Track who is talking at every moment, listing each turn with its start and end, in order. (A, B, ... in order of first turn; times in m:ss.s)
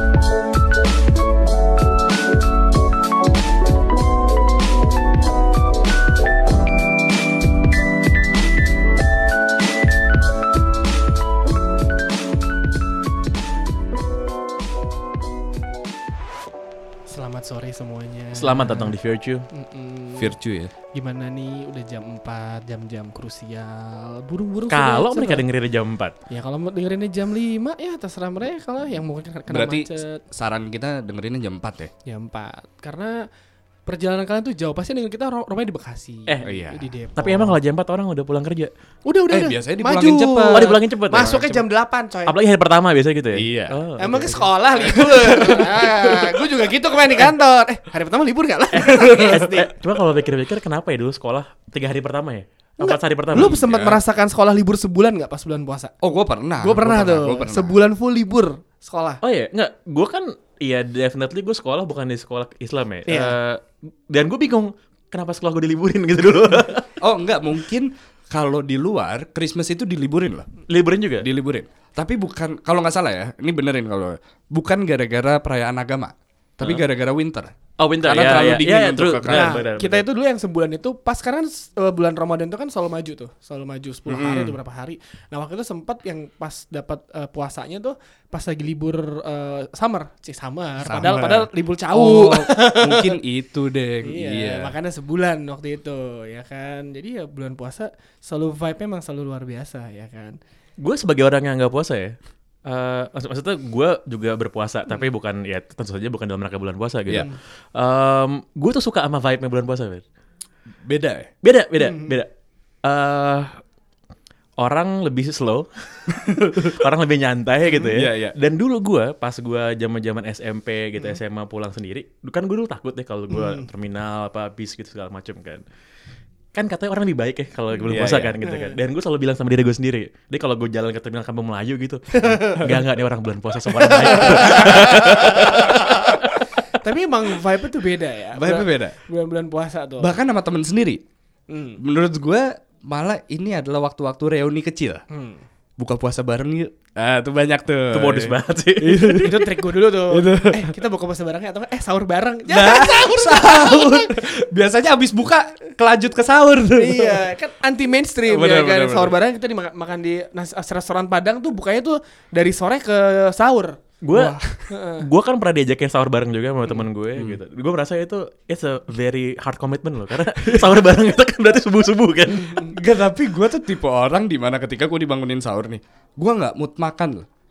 0:17.1-0:19.0 A
0:18.4-0:19.5 B
0:19.5-0:20.4 A
0:20.2-0:20.7 C
0:20.9-0:25.4 A
0:24.7-0:26.2 B
0:26.3-0:30.2 A
0:29.5-0:31.9 C
0:32.1-0:33.2 A
0:33.9-0:37.6 A
0:36.3-0:36.5 B
0:36.4-0:36.9 C
0:37.2-0:38.7 B
0:39.0-0:42.4 A
0:39.3-0:40.8 C
0:40.5-0:41.6 B
0:42.3-0:44.5 B
0:43.3-0:43.8 C
0:44.0-0:49.7 A
0:44.8-0:46.4 C
0:48.7-0:53.9 B
0:52.8-0:55.9 A
0:53.3-0:54.0 C
0:56.0-0:57.8 C
0:56.6-0:59.2 A
0:59.2-1:06.9 B
1:03.1-1:03.4 A
1:07.0-1:10.5 C
1:10.7-1:11.3 B
1:11.2-1:19.6 C
1:16.6-1:16.9 B
1:17.8-1:20.1 B
1:19.3-1:33.2 A
1:24.1-1:24.6 C
1:30.8-1:34.7 C
1:34.0-1:40.4 A
1:40.8-1:50.0 B
1:50.8-1:51.3 C
1:51.4-1:52.3 B
1:52.8-1:53.6 B
1:54.6-2:05.6 B
1:56.1-1:56.8 C
1:57.8-1:58.4 C
2:03.3-2:03.6 A
2:06.5-2:16.3 B
2:07.9-2:08.4 C
2:08.4-2:08.8 A
2:12.2-2:12.6 A
2:13.8-2:20.1 A
2:18.3-2:19.0 C
2:20.0-2:21.0 C
2:21.5-2:21.8 A
2:21.8-2:25.0 C
2:25.1-2:25.4 A
2:25.8-2:30.8 C
2:27.9-2:29.3 B
2:29.1-2:34.3 A
2:32.5-2:37.3 C
2:36.8-2:45.1 A
2:38.3-2:39.2 C
2:44.0-2:44.4 B
2:45.0-2:52.7 B
2:52.4-2:52.7 A
2:52.6-2:57.3 C